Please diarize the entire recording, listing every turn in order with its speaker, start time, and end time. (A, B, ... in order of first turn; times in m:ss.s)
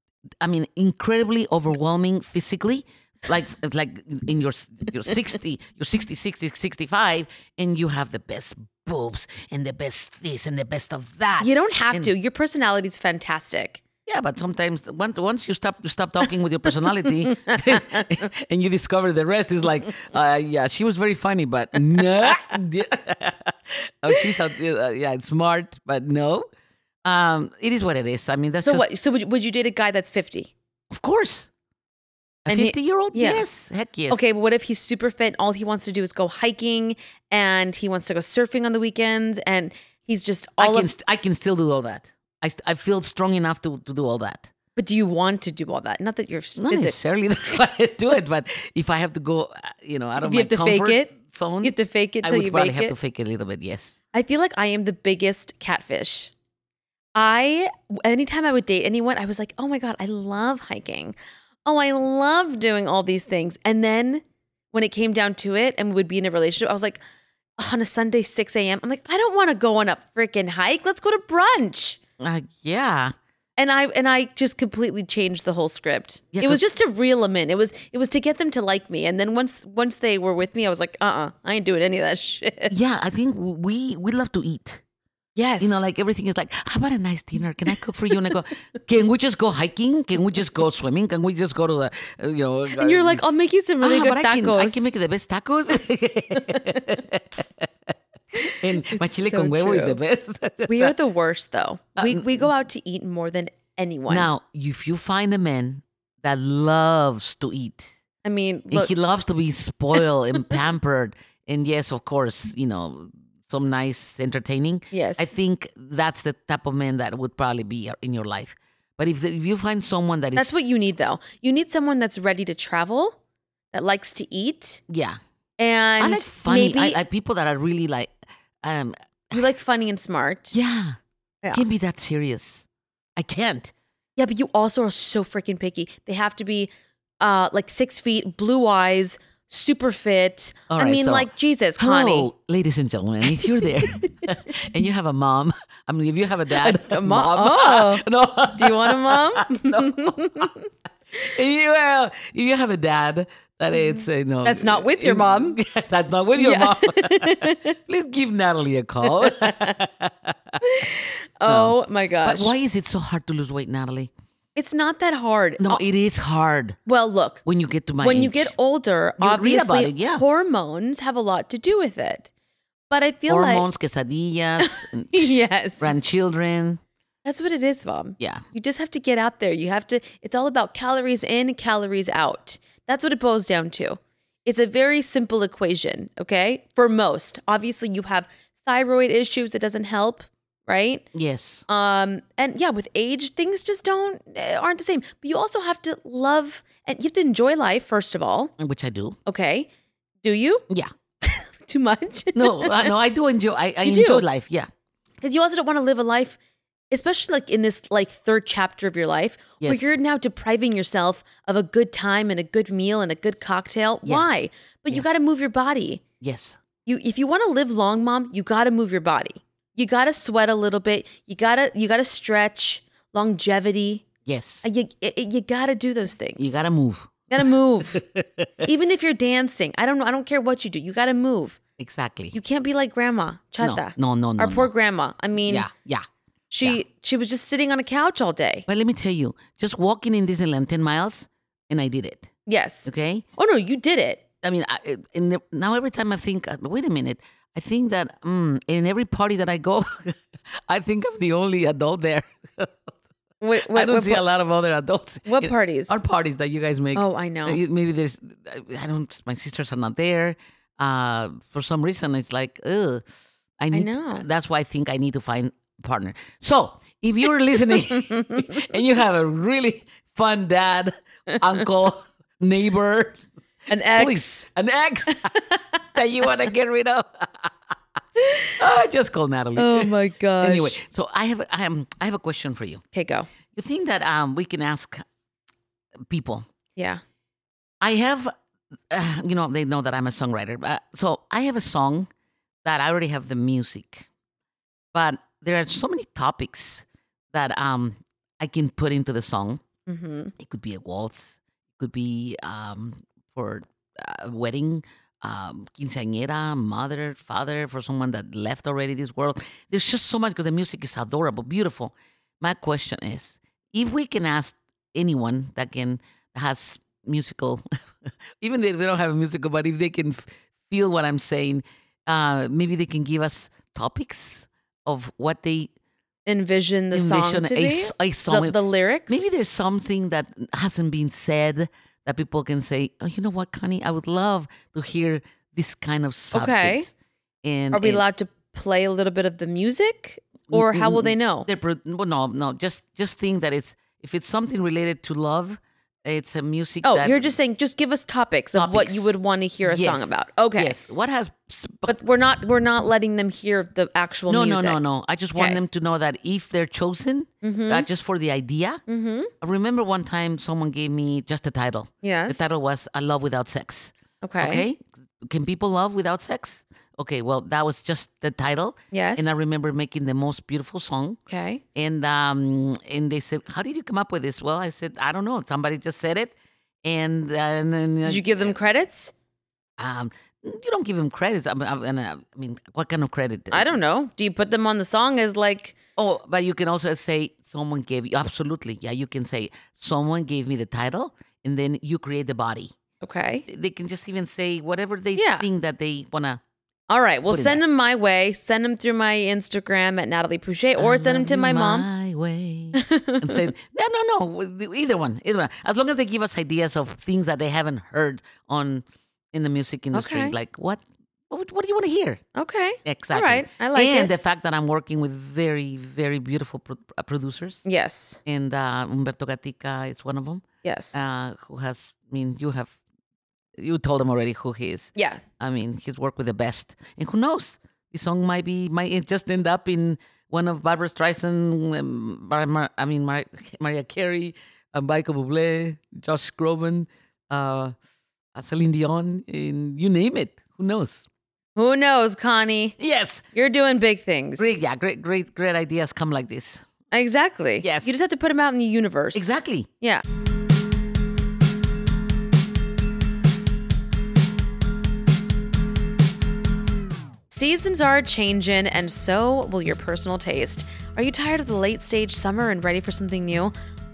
0:00.4-0:12.1 A
0:11.4-0:13.8 B
0:14.0-0:26.5 A
0:17.4-0:18.1 B
0:27.0-0:28.9 A
0:28.6-0:30.5 B
0:30.9-0:31.5 A
0:32.4-0:34.2 A
0:32.5-0:33.4 B
0:34.1-0:40.9 B
0:40.6-0:44.5 A
0:44.8-0:47.0 B
0:46.6-0:54.0 A
0:50.2-0:52.9 B
0:54.1-0:56.3 B
0:57.1-1:07.0 B
1:07.6-1:12.0 B
1:12.2-1:13.1 A
1:13.6-1:22.7 B
1:16.3-1:16.6 A
1:22.7-1:24.8 A
1:25.4-1:25.9 B
1:25.6-1:33.2 A
1:32.7-1:34.8 B
1:33.8-1:37.7 A
1:36.4-1:36.8 B
1:38.4-1:40.9 A
1:38.4-1:40.0 B
1:40.6-1:44.3 B
1:42.0-1:42.5 A
1:44.1-1:47.9 A
1:48.2-1:48.9 B
1:48.7-2:00.5 A
1:54.9-1:55.3 B
2:00.3-2:03.2 B
2:03.7-2:04.8 B
2:04.9-2:05.2 A
2:05.6-2:07.0 B
2:06.0-2:09.4 A
2:09.3-2:10.6 B
2:10.5-2:11.0 A
2:11.5-2:12.6 A
2:13.2-2:13.7 A
2:14.2-2:16.7 B
2:17.2-2:22.3 B
2:20.7-2:30.5 A
2:23.6-2:24.1 B
2:26.6-2:30.6 B
2:31.1-2:40.6 A
2:33.8-2:35.6 B
2:36.3-2:37.7 B
2:39.2-2:39.7 B
2:40.6-2:42.5 B
2:41.4-2:44.1 A
2:44.6-2:45.8 B
2:45.6-2:46.8 A
2:46.8-2:47.4 B
2:47.4-2:48.5 A
2:48.0-2:52.3 B
2:49.2-2:50.2 A
2:52.9-2:53.7 B
2:53.3-2:56.8 A
2:54.6-2:56.0 B
2:57.2-3:11.0 B
2:58.2-2:58.4 A
3:11.1-3:11.6 A
3:11.7-3:18.5 B
3:18.6-3:19.2 A
3:19.2-3:19.7 B
3:20.2-3:20.6 B
3:21.2-3:22.9 B
3:22.3-3:24.7 A
3:23.8-3:24.2 B
3:25.2-3:26.4 B
3:26.9-3:36.0 B
3:29.6-3:29.9 A
3:36.2-3:36.6 A
3:36.8-3:44.0 B
3:44.2-3:44.7 A
3:44.6-3:46.6 B
3:46.4-3:48.6 A
3:47.3-3:48.0 B
3:48.6-3:51.6 B
3:51.8-3:52.4 A
3:52.3-3:55.7 B
3:53.6-3:54.7 A
3:55.4-3:56.0 A
3:56.5-3:58.6 B
3:58.7-4:02.3 A
4:02.4-4:04.2 B
4:02.8-4:03.2 A
4:04.4-4:12.9 A
4:13.4-4:14.2 B
4:13.6-4:23.0 A
4:15.2-4:15.9 B
4:16.9-4:17.6 B
4:23.6-4:33.2 A
4:23.7-4:24.2 B
4:27.9-4:28.5 B
4:33.7-4:34.4 B
4:33.9-4:35.4 A
4:35.1-4:35.6 B
4:35.9-4:37.5 A
4:38.2-4:38.5 B
4:38.6-4:42.8 A
4:39.6-4:40.8 B
4:42.9-4:43.3 B
4:43.5-4:45.0 A
4:46.0-4:46.5 A
4:46.8-4:47.0 B
4:47.8-4:48.3 A
4:48.9-4:52.1 A
4:52.6-4:54.1 A
4:54.9-4:59.6 A
4:59.9-5:00.3 B
5:00.4-5:25.7 A
5:26.2-5:29.3 B
5:26.9-5:36.9 A
5:36.3-5:36.9 B
5:37.4-5:38.0 A
5:37.7-5:41.5 B
5:40.5-5:47.3 A
5:46.8-5:50.8 B
5:48.5-5:52.0 A
5:51.9-5:54.8 B
5:54.3-5:58.8 A
5:55.3-5:55.6 B
5:57.4-5:57.9 B
5:58.9-5:59.3 B
5:59.4-6:11.2 A
6:02.0-6:02.4 B
6:04.2-6:04.6 B
6:08.9-6:09.3 B
6:11.3-6:11.6 B
6:11.7-6:18.6 A
6:18.0-6:19.1 B
6:19.8-6:23.7 A
6:23.5-6:25.8 B
6:26.0-6:32.7 A
6:33.0-6:33.4 B
6:33.4-6:36.4 A
6:35.1-6:35.4 B
6:36.9-6:41.9 B
6:37.3-6:37.6 A
6:40.8-6:52.2 A
6:42.7-6:43.4 B
6:49.9-6:50.3 B
6:52.3-6:54.1 B
6:52.8-6:57.6 A
6:57.6-6:58.2 B
6:58.2-7:02.8 A
7:00.6-7:01.0 B
7:03.6-7:17.7 A
7:05.0-7:05.2 B
7:18.3-7:21.1 A
7:21.6-7:22.8 B
7:22.8-7:23.2 A
7:23.3-7:24.6 B
7:24.4-7:26.6 A
7:26.9-7:30.0 B
7:27.6-7:28.0 A
7:29.1-7:29.7 A
7:37.3-7:43.5 B